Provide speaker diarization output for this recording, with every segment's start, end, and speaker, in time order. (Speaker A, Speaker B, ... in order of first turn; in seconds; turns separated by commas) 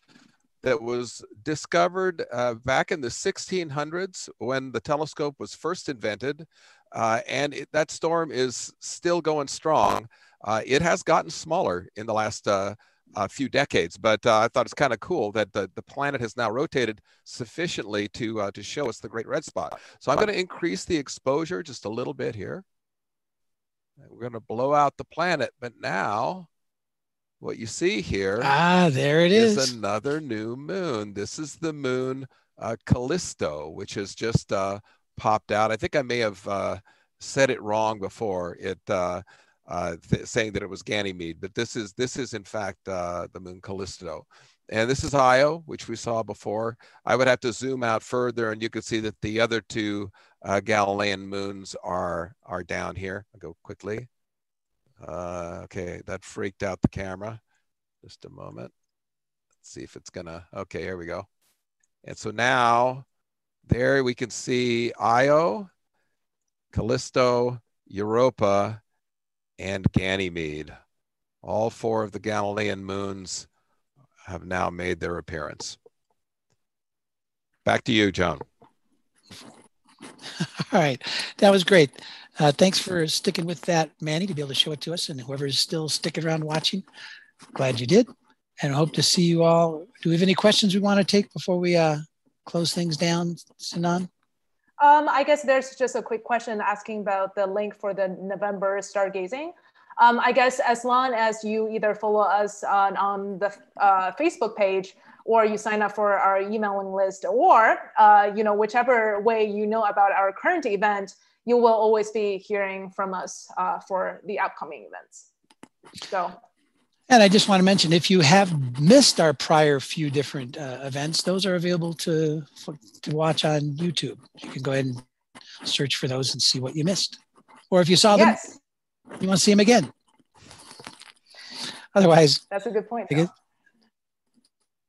Speaker A: 0.6-22.6, Speaker A: 24.0-26.5, Speaker A: 27.4-28.5, Speaker B: 28.4-29.7, Speaker A: 29.3-54.1, Speaker A: 55.0-57.4, Speaker A: 58.0-58.7, Speaker A: 59.6-61.3, Speaker A: 62.0-63.0, Speaker A: 63.6-65.7, Speaker A: 66.7-68.8, Speaker A: 69.6-70.7, Speaker A: 71.4-73.5, Speaker A: 74.2-75.8, Speaker A: 77.6-78.4, Speaker B: 80.4-86.8, Speaker B: 87.5-88.1, Speaker B: 88.6-94.1, Speaker C: 94.8-115.3, Speaker C: 116.1-116.4, Speaker B: 117.1-125.0, Speaker B: 125.6-127.2, Speaker B: 127.7-128.6, Speaker C: 128.1-128.5, Speaker B: 129.1-129.9, Speaker B: 131.9-132.4, Speaker C: 132.5-133.3